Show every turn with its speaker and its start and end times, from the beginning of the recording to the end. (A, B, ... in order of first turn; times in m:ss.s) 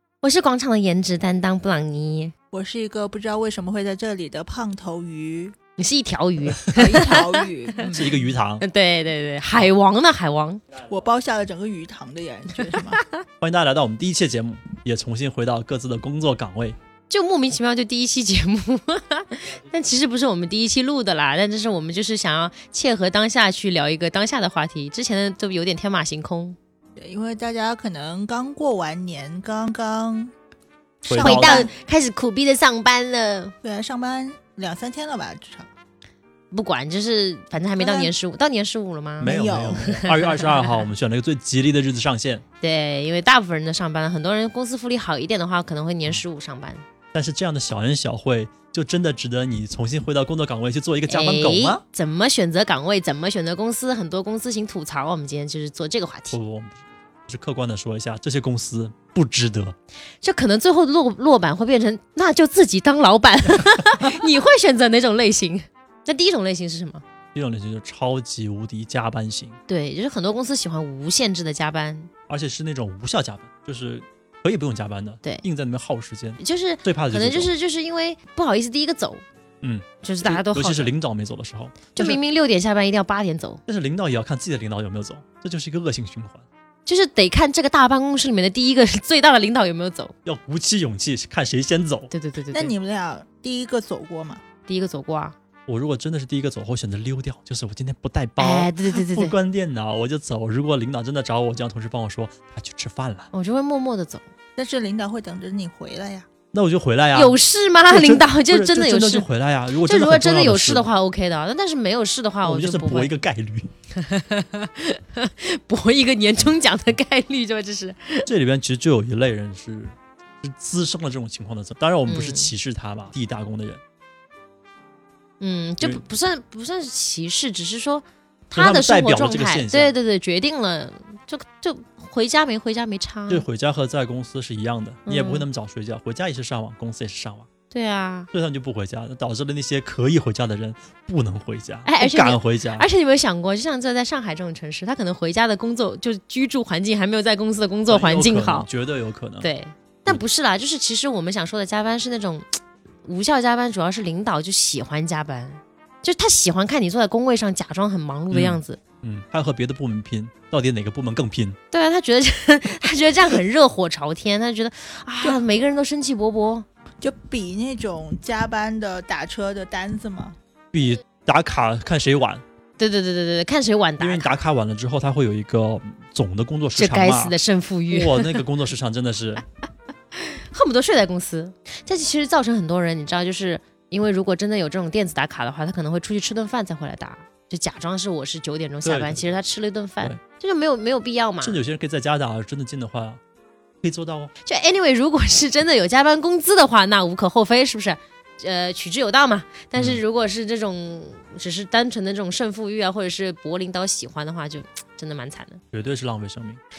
0:00.2-0:02.3 A
0:02.5-0:05.6 B
0:05.8-0:07.5 A
0:06.7-0:07.0 C
0:06.7-0:08.2 B
0:07.9-0:08.6 C
0:08.6-0:10.6 A
0:10.8-0:13.0 B
0:12.7-0:13.2 A
0:13.4-0:16.8 C
0:17.1-0:26.6 A
0:27.0-0:30.3 B
0:31.1-0:31.7 C
0:31.1-0:33.5 A
0:31.2-0:31.7 B
0:33.6-0:35.7 B
0:36.5-0:40.8 A
0:37.8-0:38.1 B
0:39.2-0:42.4 C
0:39.2-0:39.9 B
0:42.6-0:46.8 A
0:47.1-0:51.8 C
0:51.1-0:56.4 A
0:56.3-0:59.8 C
1:00.2-1:07.0 A
1:07.3-1:09.6 C
1:09.7-1:12.1 A
1:12.3-1:17.5 C
1:16.4-1:19.2 A
1:19.6-1:22.2 C
1:20.0-1:20.9 A
1:22.0-1:23.6 A
1:23.7-1:26.4 C
1:26.9-1:30.1 A
1:30.2-1:32.1 C
1:32.1-1:32.7 A
1:32.5-1:34.4 B
1:34.7-1:35.4 A
1:35.7-1:43.3 C
1:38.4-1:39.4 A
1:43.3-1:44.2 A
1:44.6-1:46.3 B
1:46.5-1:47.4 C
1:47.1-1:49.3 A
1:47.9-1:50.9 C
1:49.8-1:53.1 A
1:52.4-1:53.7 C
1:54.0-1:58.3 A
1:58.3-2:03.8 C
2:02.1-2:02.5 A
2:05.4-2:13.4 A
2:08.6-2:09.9 C
2:13.3-2:17.5 C
2:15.1-2:15.5 A
2:17.7-2:18.3 A
2:18.3-2:22.9 C
2:21.8-2:28.7 A
2:27.9-2:29.5 C
2:29.4-2:38.8 A
2:38.3-2:41.6 C
2:41.7-2:46.7 A
2:47.0-2:50.4 B
2:50.7-2:52.4 C
2:52.8-2:54.3 A
2:54.0-2:59.4 C
2:56.7-2:58.4 A
3:00.1-3:11.6 A
3:08.8-3:09.3 C
3:11.4-3:13.2 C
3:13.8-3:14.3 C
3:14.4-3:25.6 A
3:19.8-3:20.0 C
3:25.7-3:26.6 C